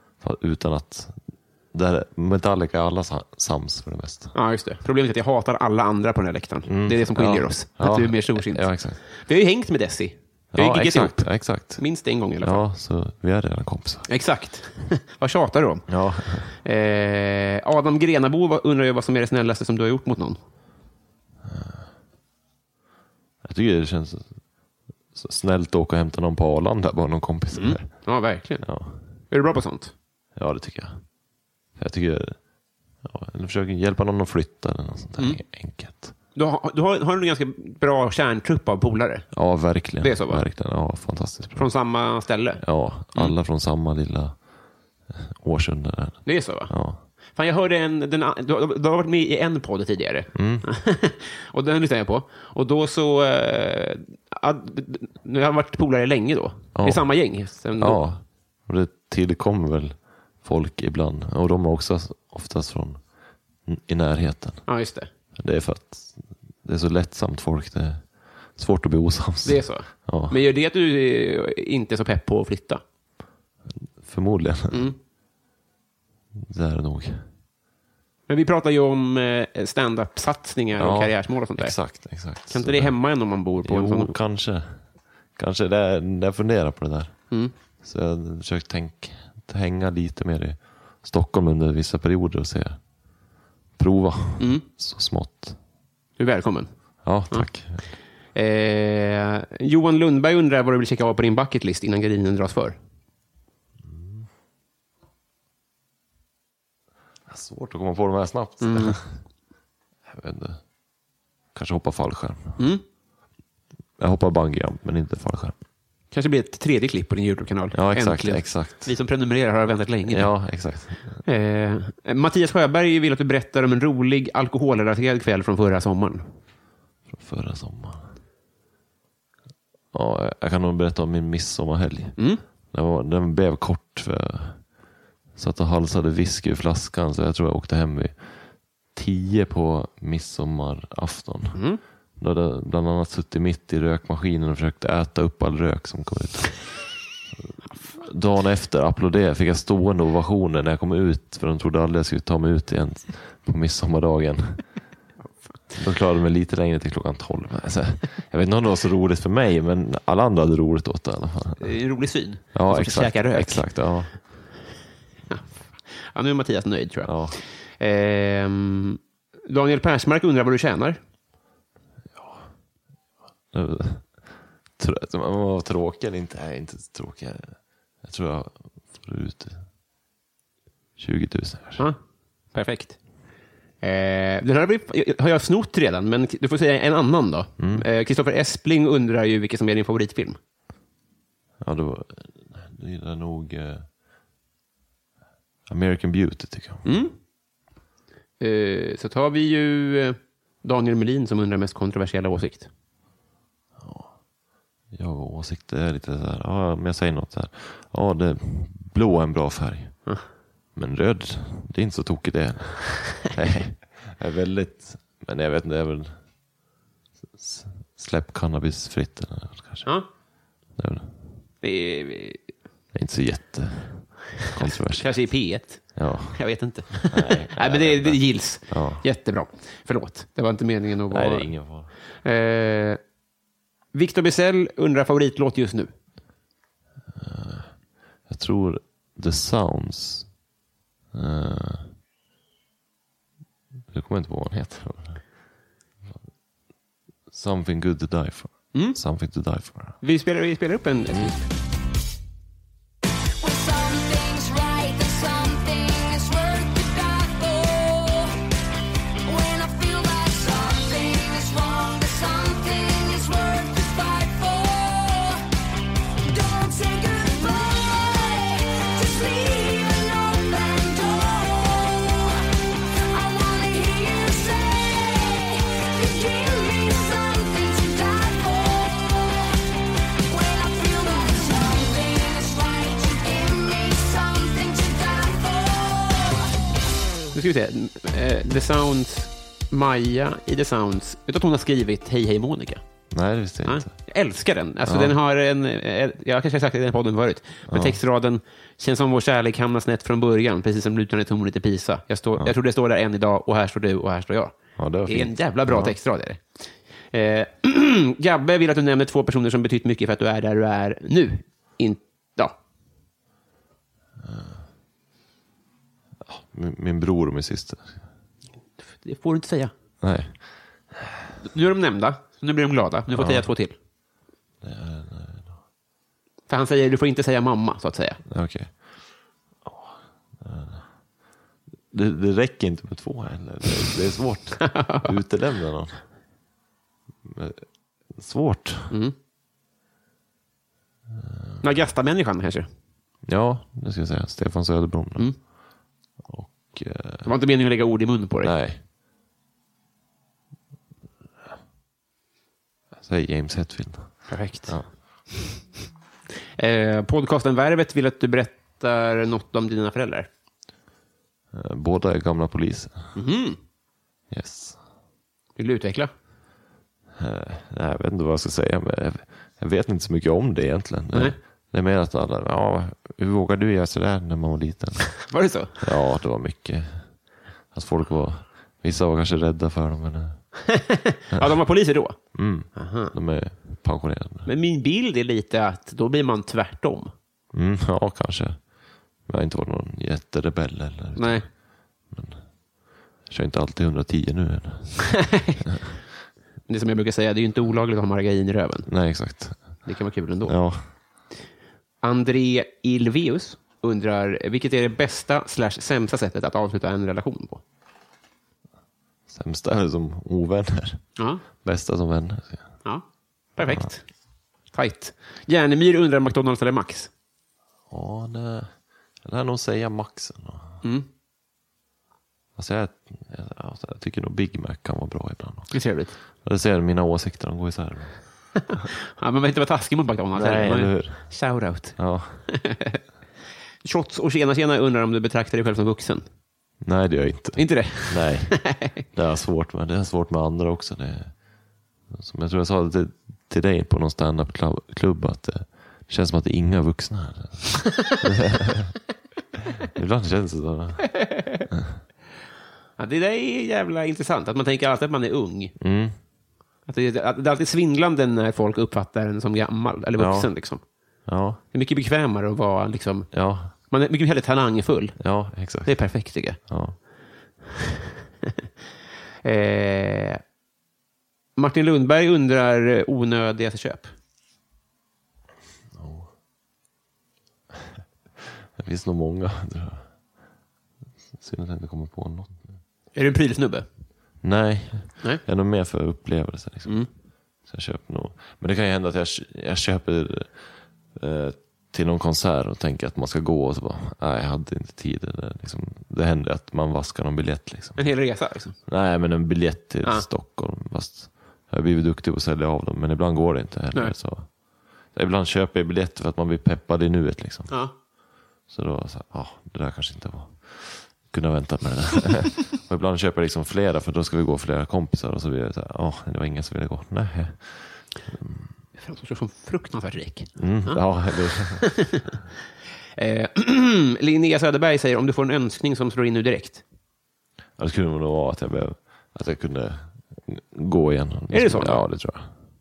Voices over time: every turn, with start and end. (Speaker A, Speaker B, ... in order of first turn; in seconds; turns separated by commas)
Speaker A: 0.2-4.3, Speaker B: 4.3-12.6, Speaker A: 6.7-9.0, Speaker A: 10.5-11.8, Speaker A: 12.4-14.1, Speaker B: 14.1-20.4, Speaker A: 15.9-16.5, Speaker A: 21.4-21.9, Speaker A: 23.4-24.4, Speaker A: 25.1-28.1, Speaker B: 27.5-29.9, Speaker A: 28.6-29.0, Speaker A: 30.3-31.1, Speaker A: 31.8-32.5, Speaker A: 33.0-36.1, Speaker B: 36.3-40.4, Speaker A: 39.3-41.7, Speaker B: 41.5-43.3, Speaker A: 42.6-44.5, Speaker A: 45.1-47.0, Speaker B: 46.2-46.8, Speaker B: 47.3-58.0, Speaker A: 50.3-50.6, Speaker A: 56.8-57.1, Speaker A: 57.8-63.1, Speaker A: 63.6-64.6, Speaker B: 64.7-65.1, Speaker A: 65.4-70.4, Speaker B: 69.4-72.8, Speaker A: 73.7-74.9, Speaker B: 74.7-75.0, Speaker A: 76.3-77.2, Speaker B: 78.3-84.1, Speaker A: 80.8-83.0, Speaker A: 83.6-87.3, Speaker A: 87.8-92.8, Speaker A: 93.8-95.6, Speaker B: 94.4-94.7, Speaker B: 96.2-97.5, Speaker A: 97.0-97.8, Speaker B: 98.3-102.8, Speaker A: 103.8-104.3, Speaker A: 107.3-109.1, Speaker B: 108.6-109.0, Speaker A: 110.1-110.6, Speaker A: 111.5-112.6, Speaker B: 112.6-112.8, Speaker A: 114.0-115.5, Speaker B: 116.1-120.3, Speaker A: 117.7-118.9, Speaker A: 120.1-121.2, Speaker B: 121.2-126.3, Speaker A: 127.1-128.1, Speaker A: 129.9-132.2, Speaker B: 132.2-132.4, Speaker A: 132.7-134.7, Speaker A: 135.3-141.6, Speaker B: 141.5-141.8, Speaker A: 142.2-154.7, Speaker A: 155.7-161.6, Speaker B: 161.6-163.7, Speaker A: 162.5-164.2, Speaker B: 165.3-171.0, Speaker A: 167.0-167.4, Speaker A: 172.1-172.5, Speaker A: 173.5-179.7, Speaker A: 181.0-181.8, Speaker B: 182.5-183.0, Speaker B: 183.8-190.4, Speaker A: 187.6-187.8, Speaker A: 191.6-193.8, Speaker A: 195.7-196.8, Speaker B: 196.8-197.1, Speaker B: 198.4-202.7, Speaker A: 203.8-204.2, Speaker A: 204.9-210.0, Speaker A: 210.7-216.2, Speaker A: 217.3-219.9, Speaker A: 220.7-221.3, Speaker B: 221.6-222.4, Speaker A: 222.9-225.1, Speaker B: 224.4-233.0, Speaker A: 225.9-226.4, Speaker A: 227.0-229.0, Speaker A: 231.1-231.9, Speaker B: 233.9-235.9, Speaker A: 237.1-240.3, Speaker A: 241.1-241.9, Speaker A: 243.9-245.2, Speaker A: 247.3-250.0, Speaker B: 248.7-249.0, Speaker B: 250.0-251.4, Speaker C: 253.4-258.4, Speaker C: 259.2-265.4, Speaker C: 266.2-279.5, Speaker C: 280.3-286.5, Speaker B: 287.3-292.8, Speaker A: 293.1-294.0, Speaker B: 293.6-312.5, Speaker A: 294.8-295.1, Speaker A: 297.7-298.0, Speaker A: 304.8-305.9, Speaker A: 314.2-314.6, Speaker A: 316.2-318.0, Speaker B: 318.9-319.7, Speaker A: 320.0-320.7, Speaker B: 321.4-323.7, Speaker A: 323.1-323.5, Speaker A: 324.6-325.6, Speaker B: 326.5-328.2, Speaker A: 328.3-330.9, Speaker A: 331.9-336.0, Speaker B: 334.7-335.1, Speaker A: 337.2-338.9, Speaker B: 338.9-339.1, Speaker A: 341.2-341.5, Speaker B: 341.6-342.7, Speaker A: 343.2-345.5, Speaker A: 346.2-347.3, Speaker B: 347.2-348.5, Speaker A: 348.4-348.8, Speaker A: 353.0-354.9, Speaker B: 354.3-355.6, Speaker B: 356.6-360.3, Speaker A: 361.5-363.1, Speaker B: 363.1-363.6, Speaker A: 364.3-364.8, Speaker B: 365.6-366.1, Speaker A: 367.2-375.2, Speaker B: 375.3-375.8, Speaker A: 375.8-377.2, Speaker A: 377.7-380.5, Speaker B: 380.7-383.1, Speaker A: 382.3-384.5, Speaker B: 384.4-387.1, Speaker A: 387.5-391.5, Speaker B: 391.1-391.5, Speaker A: 392.1-392.5, Speaker A: 393.2-395.2, Speaker B: 395.1-395.6, Speaker B: 396.7-398.9, Speaker A: 398.9-399.8, Speaker B: 399.8-400.6, Speaker A: 400.4-400.8, Speaker B: 402.0-407.6, Speaker A: 409.3-412.8, Speaker B: 411.2-411.4, Speaker B: 412.8-414.1, Speaker A: 413.6-413.9, Speaker B: 414.7-417.1, Speaker A: 417.9-420.8, Speaker A: 422.6-425.8, Speaker B: 425.7-426.1, Speaker A: 426.4-428.2, Speaker B: 428.6-433.0, Speaker A: 430.3-431.4, Speaker A: 431.9-432.4, Speaker B: 433.8-436.2, Speaker A: 436.8-441.4, Speaker B: 437.6-438.9, Speaker A: 442.1-448.9, Speaker A: 449.9-451.2, Speaker B: 451.1-451.6, Speaker B: 453.0-455.8, Speaker A: 455.8-456.1, Speaker B: 456.9-460.9, Speaker A: 460.2-460.5, Speaker A: 461.2-461.6, Speaker B: 461.7-466.6, Speaker A: 463.3-463.7, Speaker A: 465.2-467.0, Speaker B: 469.4-470.4, Speaker B: 471.6-474.1, Speaker A: 475.9-476.3, Speaker A: 478.8-480.1, Speaker A: 481.4-482.6, Speaker B: 483.1-483.9, Speaker A: 484.4-487.0, Speaker A: 487.6-498.0, Speaker B: 498.0-498.8, Speaker A: 498.9-504.5, Speaker A: 505.0-507.8, Speaker A: 508.7-518.7, Speaker B: 519.0-522.4, Speaker A: 520.6-521.9, Speaker B: 523.2-526.8, Speaker A: 527.8-532.5, Speaker B: 531.5-532.0